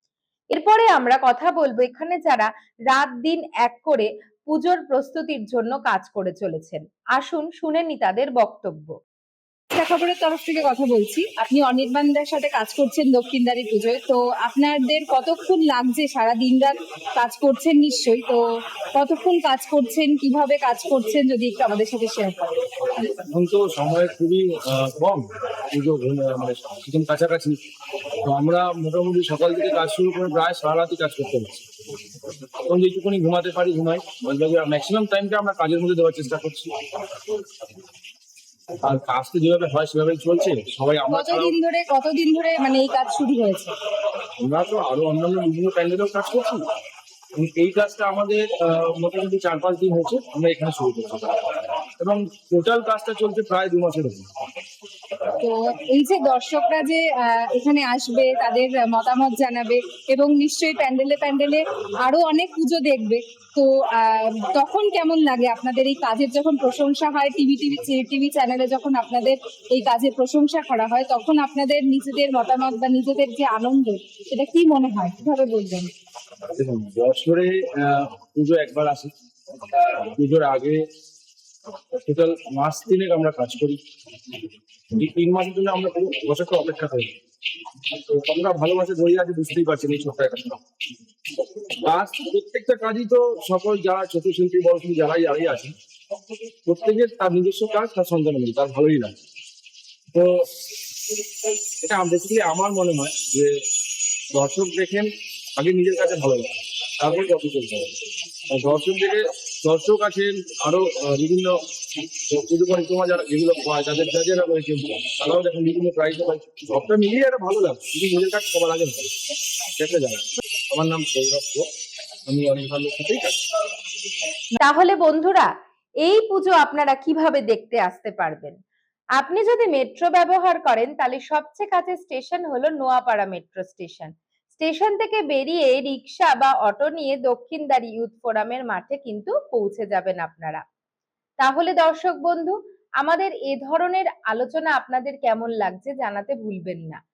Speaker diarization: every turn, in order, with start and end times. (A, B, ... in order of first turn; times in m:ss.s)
0:00.5-0:08.9 A
0:09.7-0:18.4 B
0:18.9-0:22.5 B
0:23.0-0:27.6 C
0:28.2-0:31.6 C
0:32.6-0:36.8 C
0:38.8-0:41.5 C
0:41.1-0:43.7 B
0:44.4-0:46.6 C
0:47.3-0:54.3 C
0:55.4-1:15.9 B
1:16.5-1:19.1 C
1:19.7-1:20.8 C
1:22.0-1:23.8 C
1:24.9-1:27.1 C
1:27.9-1:30.6 C
1:31.8-1:35.7 C
1:36.6-1:39.2 C
1:40.1-1:40.4 C
1:41.8-1:43.5 C
1:44.3-1:47.9 C
1:48.5-1:51.6 C
1:52.3-1:59.1 C
1:59.8-2:01.7 C
2:02.2-2:03.5 C
2:04.6-2:05.5 A
2:06.0-2:08.6 A
2:09.2-2:20.6 A
2:21.4-2:27.0 A